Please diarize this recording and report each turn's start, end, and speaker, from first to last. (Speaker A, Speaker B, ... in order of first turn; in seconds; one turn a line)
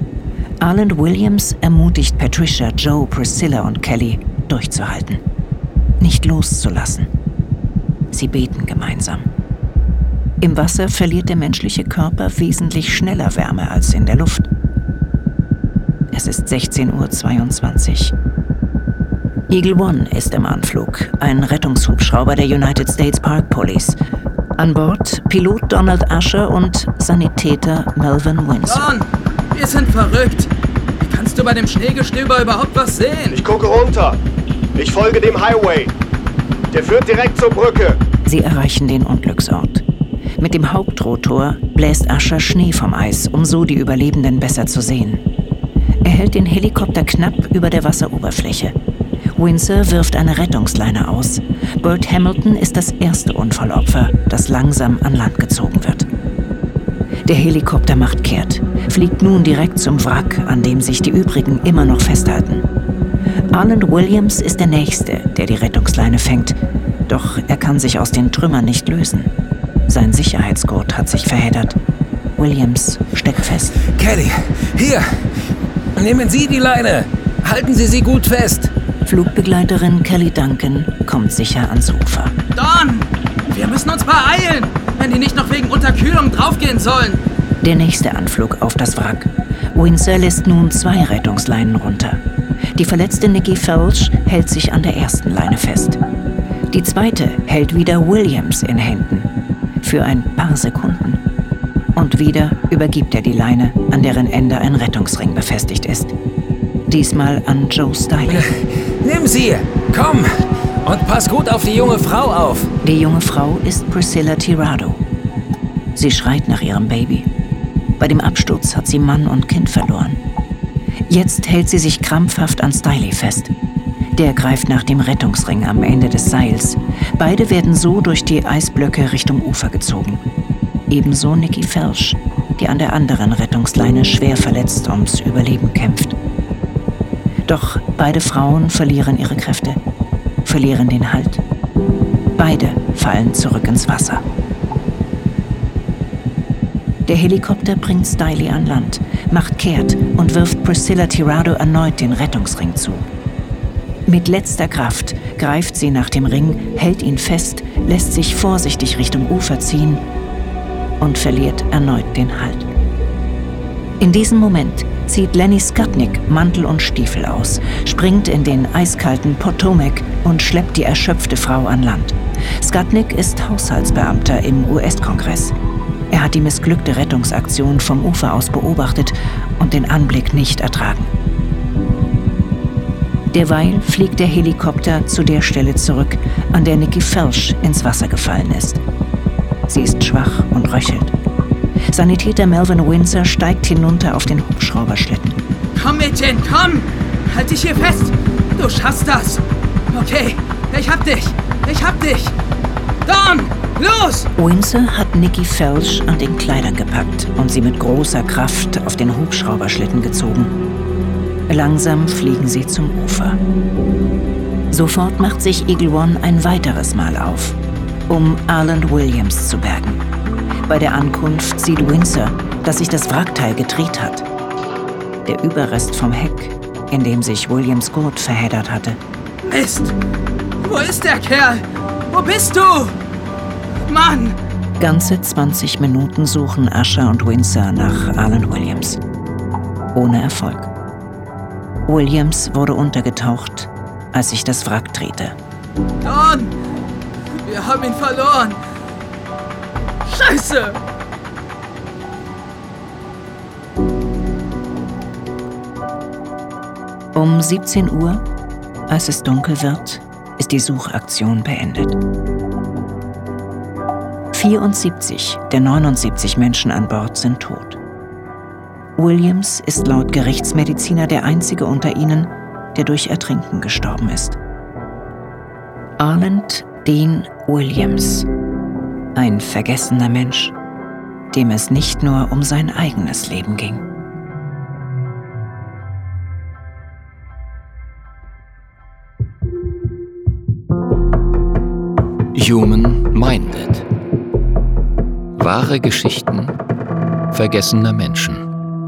Speaker A: 0.6-5.2
Speaker A: 6.0-7.1
Speaker A: 8.1-9.3
Speaker A: 10.4-14.5
Speaker A: 16.1-18.1
Speaker A: 19.5-24.0
Speaker A: 24.6-28.9
Speaker B: 28.7-30.5
Speaker B: 31.0-33.4
Speaker C: 33.3-34.2
Speaker C: 34.8-35.9
Speaker C: 36.7-38.0
Speaker A: 38.2-39.8
Speaker A: 40.4-45.2
Speaker A: 46.0-48.8
Speaker A: 49.4-56.1
Speaker A: 57.2-62.6
Speaker A: 63.5-69.3
Speaker A: 69.9-71.8
Speaker A: 72.4-73.8
Speaker D: 73.9-75.0
Speaker D: 76.0-78.7
Speaker A: 79.0-82.3
Speaker B: 82.5-87.2
Speaker A: 87.6-92.2
Speaker A: 92.7-96.0
Speaker A: 96.7-99.3
Speaker A: 99.8-101.2
Speaker A: 102.0-106.1
Speaker A: 106.9-108.4
Speaker D: 108.3-110.3
Speaker D: 110.8-112.7
Speaker A: 112.8-115.0
Speaker A: 115.9-117.3
Speaker A: 118.0-120.2
Speaker A: 121.1-123.5
Speaker A: 124.2-130.2
Speaker A: 130.9-136.2
Speaker A: 137.5-139.8
Speaker A: 140.4-141.4
Speaker A: 142.4-144.2
Speaker A: 147.1-153.0
Speaker A: 154.1-160.0
Speaker A: 161.0-162.7
Speaker A: 164.0-175.5
Speaker A: 176.1-181.1
Speaker A: 183.3-188.8
Speaker A: 189.7-191.1
Speaker A: 191.9-195.4
Speaker B: 195.7-202.3
Speaker B: 203.1-204.3
Speaker A: 204.4-210.6
Speaker A: 211.5-213.4
Speaker A: 214.7-217.6
Speaker A: 218.1-220.0
Speaker A: 220.7-224.2
Speaker A: 225.2-229.0
Speaker B: 229.4-229.9
Speaker B: 230.6-232.9
Speaker B: 233.9-234.3
Speaker A: 234.8-239.0
Speaker A: 239.9-240.7
Speaker A: 241.8-245.3
Speaker B: 246.0-246.6
Speaker B: 247.4-248.6
Speaker B: 250.1-250.8
Speaker A: 257.1-258.2
Speaker A: 258.9-262.0
Speaker A: 264.3-267.8
Speaker A: 269.0-274.4
Speaker A: 276.0-278.3
Speaker A: 279.1-280.5
Speaker A: 281.3-283.8
Speaker E: 292.3-293.8
Speaker E: 295.4-296.5
Speaker E: 297.3-298.5